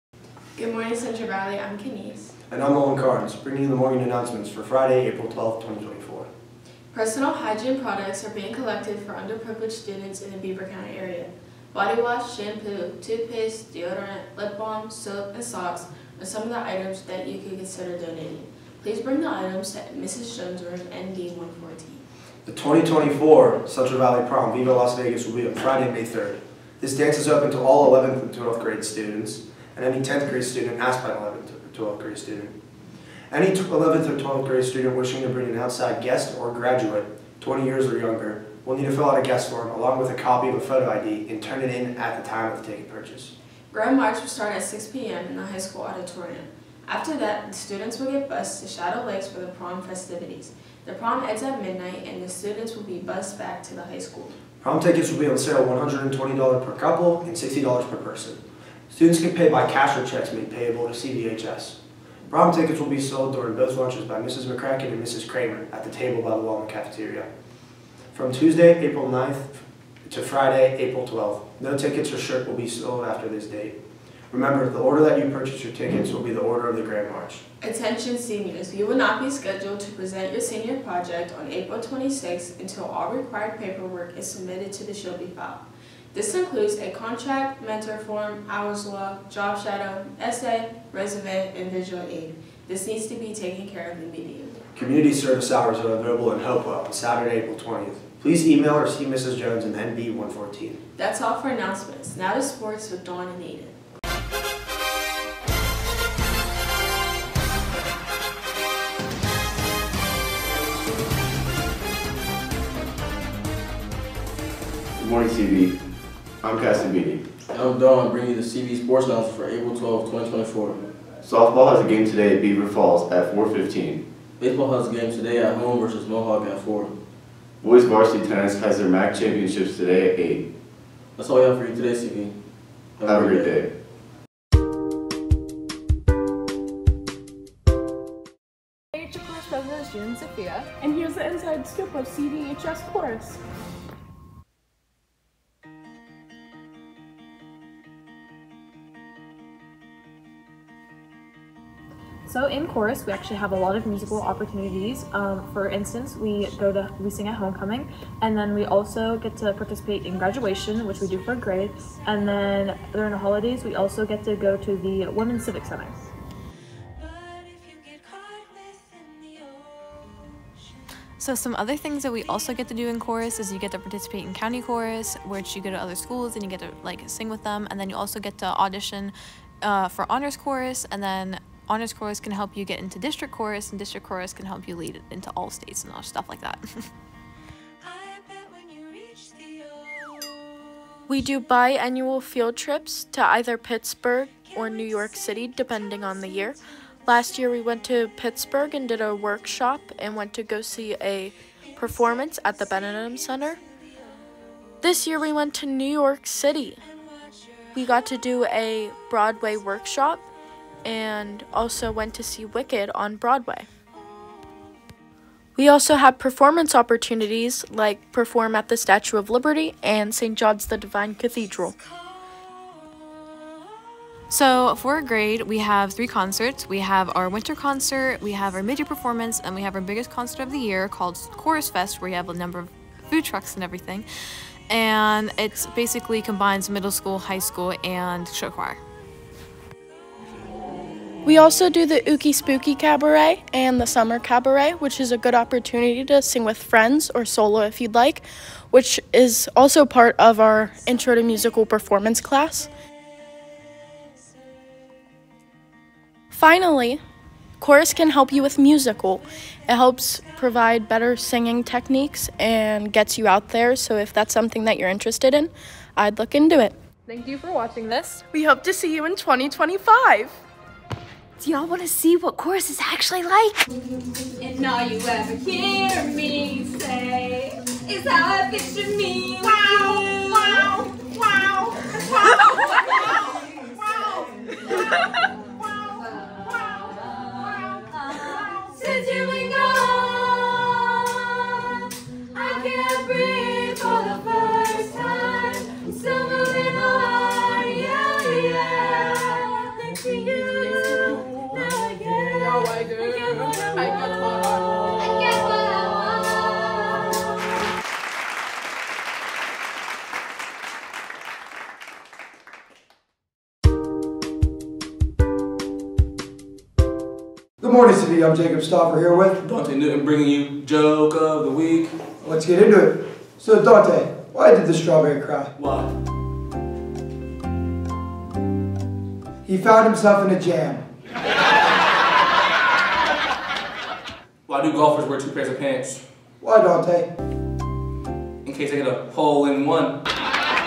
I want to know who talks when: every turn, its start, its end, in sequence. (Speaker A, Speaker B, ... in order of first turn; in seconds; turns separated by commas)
Speaker A: 0.6-2.3, Speaker B: 2.5-6.3, Speaker A: 6.9-22.0, Speaker B: 22.5-32.6, Speaker B: 33.3-43.3, Speaker A: 43.7-54.4, Speaker B: 54.6-67.3, Speaker B: 68.1-73.8, Speaker B: 74.3-77.4, Speaker A: 77.6-94.6, Speaker B: 94.8-100.8, Speaker A: 101.0-103.8, Speaker C: 115.0-115.7, Speaker C: 116.4-117.2, Speaker D: 117.5-120.8, Speaker C: 121.2-124.0, Speaker D: 124.4-126.9, Speaker C: 127.6-130.4, Speaker D: 131.2-132.3, Speaker D: 133.0-133.6, Speaker C: 133.1-133.6, Speaker E: 140.8-143.4, Speaker F: 152.3-166.0, Speaker G: 171.2-186.9, Speaker H: 191.1-203.6, Speaker H: 204.8-206.8, Speaker H: 207.7-210.3, Speaker H: 210.9-213.7, Speaker H: 215.6-221.8, Speaker G: 224.3-234.1, Speaker G: 234.7-238.8, Speaker H: 241.2-252.7, Speaker H: 256.3-257.0, Speaker H: 257.6-266.8, Speaker F: 267.1-268.2, Speaker E: 268.9-270.3, Speaker I: 271.4-273.6, Speaker I: 274.4-276.9, Speaker J: 274.5-280.7, Speaker I: 277.9-279.6, Speaker I: 280.2-280.5, Speaker J: 288.7-290.8, Speaker J: 292.4-299.1, Speaker I: 296.3-299.4, Speaker J: 299.8-303.9, Speaker I: 300.4-301.2, Speaker I: 302.4-305.3, Speaker J: 305.0-306.6, Speaker K: 317.6-319.4, Speaker L: 319.4-322.0, Speaker K: 322.2-325.5, Speaker L: 325.6-325.9, Speaker K: 329.4-330.9, Speaker L: 334.5-336.1, Speaker K: 336.4-337.1, Speaker L: 338.4-340.0